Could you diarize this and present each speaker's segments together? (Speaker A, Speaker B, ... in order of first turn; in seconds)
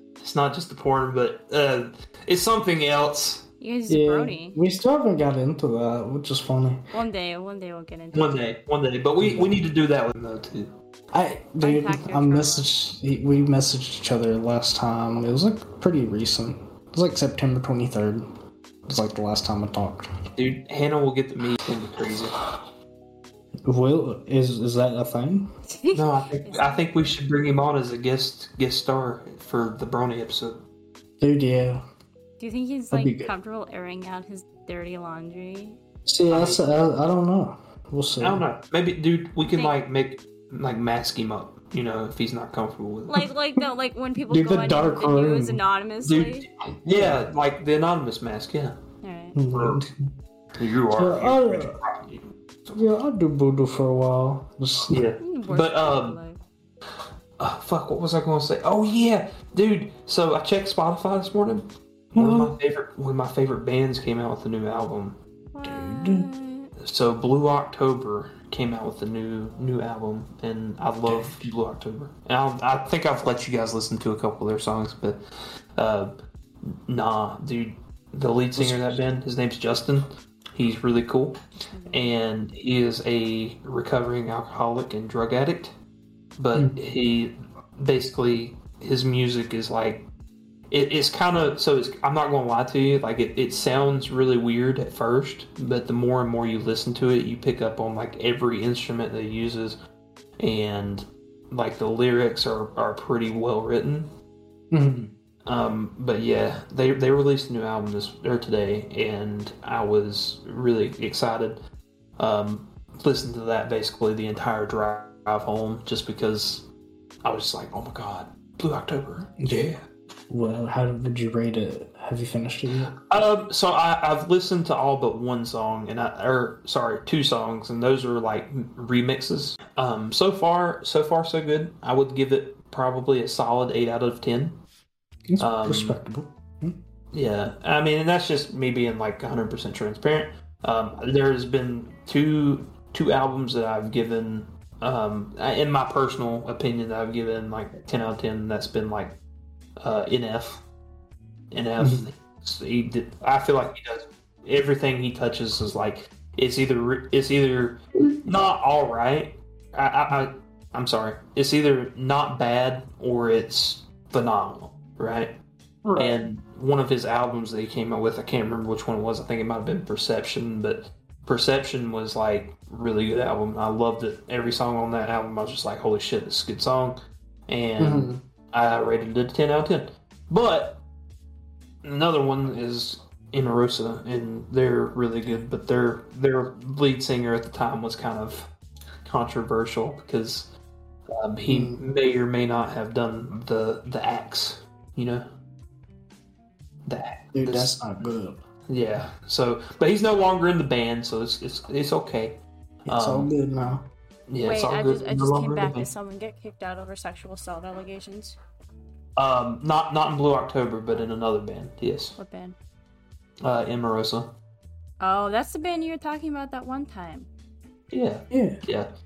Speaker A: 0.2-3.4, 8.1-10.7, 20.4-22.4, 25.9-30.6, 36.3-36.6, 38.2-43.3, 46.0-48.7, 49.5-49.8, 50.6-52.8, 54.9-56.2, 57.4-65.2, 66.8-75.2, 75.8-76.1, 76.6-81.4, 81.9-85.7, 86.4-90.0, 90.7-99.8, 100.4-104.1, 105.5-111.6, 112.2-116.6, 117.2-119.8, 123.1-134.5, 135.4-135.9, 137.1-149.1, 149.8-150.6, 151.5-165.3, 165.9-176.9, 177.5-180.8, 181.8-188.5, 189.0-190.5, 191.1-195.2, 196.8-197.8, 198.7-202.3, 202.9-203.3, 204.3-205.9, 209.2-212.2, 213.4-214.3, 217.9-218.9
Speaker B: 3.6-4.6, 6.9-8.4, 11.6-12.7, 25.7-26.9, 32.4-35.8, 39.5-39.8, 43.1-46.5, 49.0-49.4, 55.2-56.4, 65.5-66.7, 81.7-82.1, 204.4-208.4, 212.2-212.6, 215.0-217.3
Speaker C: 3.9-6.8, 9.2-9.6, 11.1-18.2, 18.9-20.1, 23.6-25.5, 31.2-31.8, 32.9-33.3, 36.0-38.4, 44.3-45.6, 46.8-47.2, 49.3-49.9, 50.9-51.8, 52.7-55.0, 62.1-62.5, 65.6-66.2, 71.0-71.3, 78.5-79.0, 104.7-105.1, 119.4-119.7, 120.3-122.9, 135.3-136.8, 151.8-152.1, 165.8-166.2, 177.8-178.2, 191.5-191.8, 197.3-198.4, 202.8-203.8, 218.3-218.6